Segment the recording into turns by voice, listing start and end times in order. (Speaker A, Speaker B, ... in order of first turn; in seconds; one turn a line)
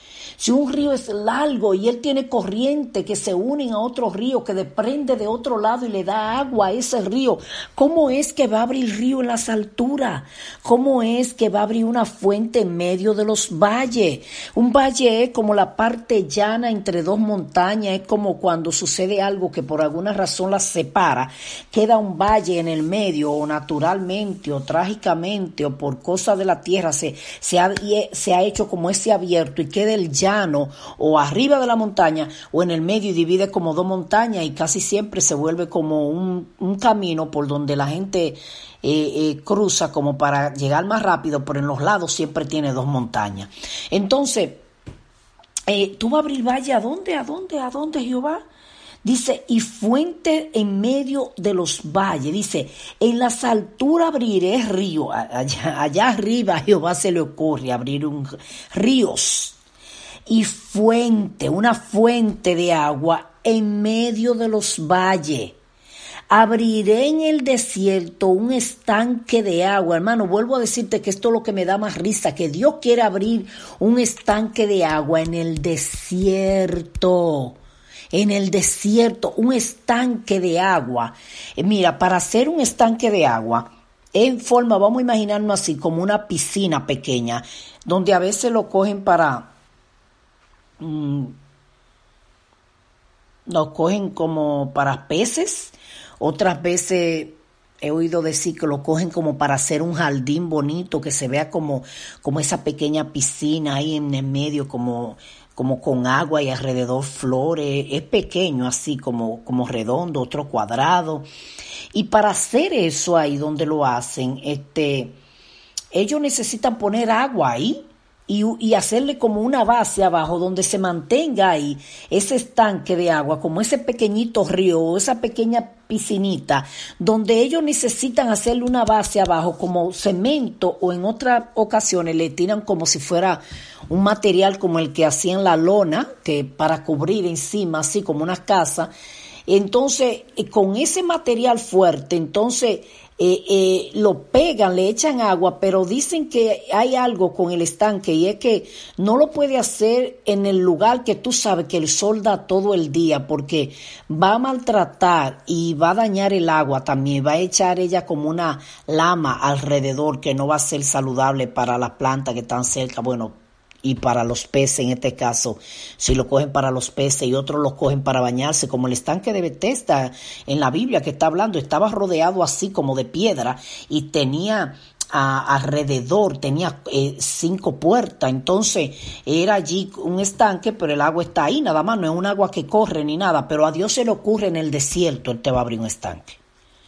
Speaker A: 0.4-44.6
Speaker A: 45.7-48.4
Speaker A: 49.0-59.6
Speaker A: 60.3-65.6
Speaker A: 66.3-77.6
Speaker A: 78.1-89.5
Speaker A: 90.8-91.3
Speaker A: 93.5-111.2
Speaker A: 111.9-115.2
Speaker A: 115.9-138.9
Speaker A: 139.5-186.4